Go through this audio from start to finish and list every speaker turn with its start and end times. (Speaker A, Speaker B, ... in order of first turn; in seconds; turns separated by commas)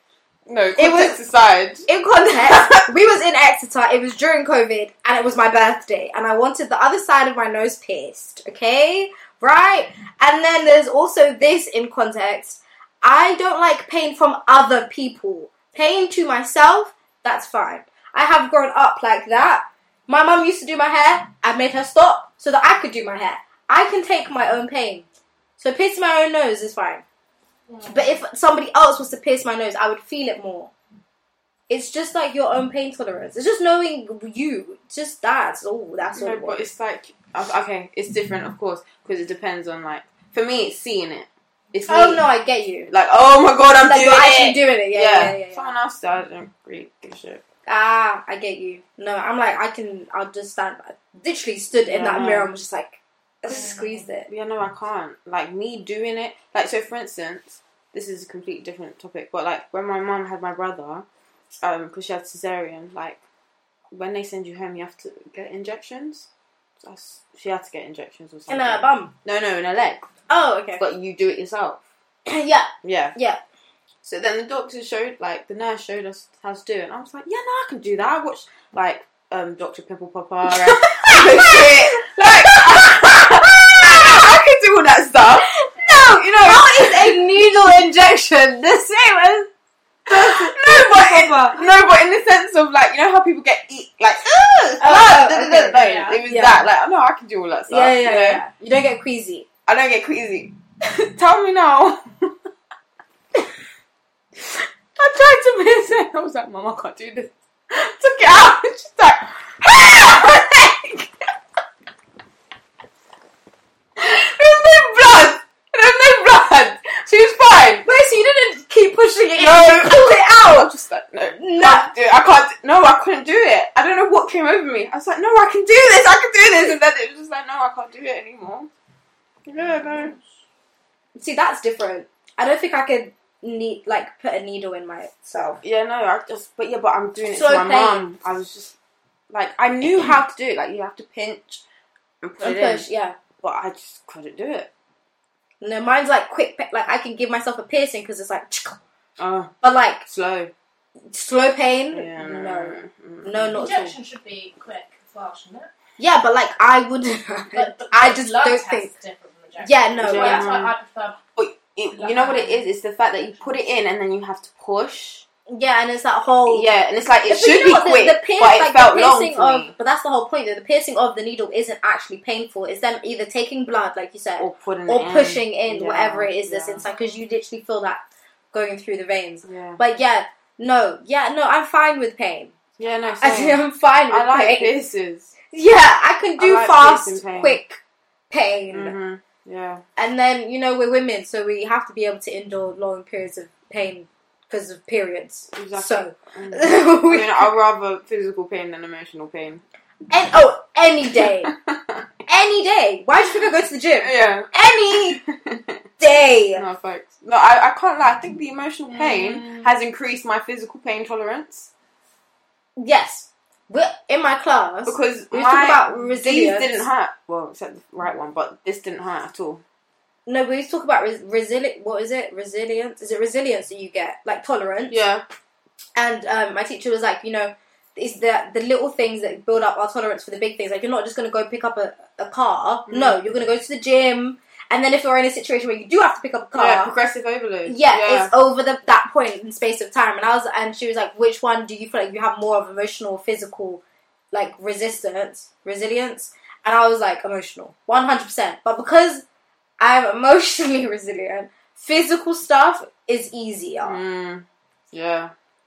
Speaker A: 0.5-1.9, Speaker B: 0.8-1.2, Speaker B: 1.9-25.0, Speaker A: 2.5-2.8, Speaker B: 25.6-27.0, Speaker C: 27.7-28.2, Speaker B: 27.9-30.7, Speaker B: 31.7-36.6, Speaker A: 36.1-42.2, Speaker B: 41.9-42.9, Speaker A: 42.9-47.4, Speaker B: 43.8-45.7, Speaker B: 47.6-54.3, Speaker A: 51.8-52.5, Speaker A: 54.3-61.0, Speaker A: 61.6-63.2, Speaker A: 63.9-66.3, Speaker A: 66.8-70.0, Speaker B: 68.5-69.1, Speaker B: 70.3-70.8, Speaker A: 70.8-71.8, Speaker B: 72.3-73.4, Speaker A: 72.8-73.2, Speaker A: 74.0-87.2, Speaker B: 80.7-84.0, Speaker B: 85.5-89.5, Speaker B: 90.1-91.6, Speaker A: 90.1-98.4, Speaker B: 94.2-96.6, Speaker B: 97.7-99.5, Speaker A: 99.7-102.4, Speaker A: 104.4-111.1, Speaker A: 114.0-117.9, Speaker B: 117.8-120.7, Speaker A: 119.3-128.7, Speaker B: 121.3-121.9, Speaker A: 129.5-130.1, Speaker B: 129.6-130.1, Speaker B: 131.2-135.6, Speaker A: 135.6-138.7, Speaker B: 137.3-138.1, Speaker A: 139.3-141.6, Speaker A: 142.2-142.9, Speaker B: 142.4-143.2, Speaker A: 143.4-144.7, Speaker B: 145.6-148.8, Speaker A: 149.2-150.5, Speaker B: 149.6-150.1, Speaker B: 151.1-153.9, Speaker A: 151.9-153.7, Speaker C: 153.6-155.7, Speaker B: 156.0-158.9, Speaker C: 157.5-161.2, Speaker B: 159.6-160.5, Speaker A: 160.0-160.7, Speaker A: 161.3-165.2, Speaker C: 161.9-162.7, Speaker B: 165.5-166.7, Speaker A: 166.5-169.7, Speaker B: 167.3-182.5, Speaker A: 174.4-176.8, Speaker A: 179.4-179.8, Speaker A: 182.8-185.3, Speaker B: 183.2-184.8, Speaker B: 185.5-187.8, Speaker A: 186.4-187.6, Speaker B: 188.3-188.9, Speaker A: 188.7-189.8, Speaker B: 189.9-197.5, Speaker A: 195.5-199.6, Speaker B: 200.1-201.5, Speaker A: 201.2-202.0, Speaker B: 202.2-205.2, Speaker A: 204.0-205.8, Speaker B: 206.0-206.6, Speaker A: 206.6-211.7, Speaker B: 208.9-209.7, Speaker B: 212.8-216.8, Speaker A: 214.8-219.6, Speaker B: 220.2-225.0, Speaker A: 224.9-225.2, Speaker B: 225.9-236.9, Speaker A: 232.9-233.2, Speaker A: 236.5-238.3, Speaker B: 237.7-249.2, Speaker B: 249.8-254.0, Speaker A: 253.8-255.3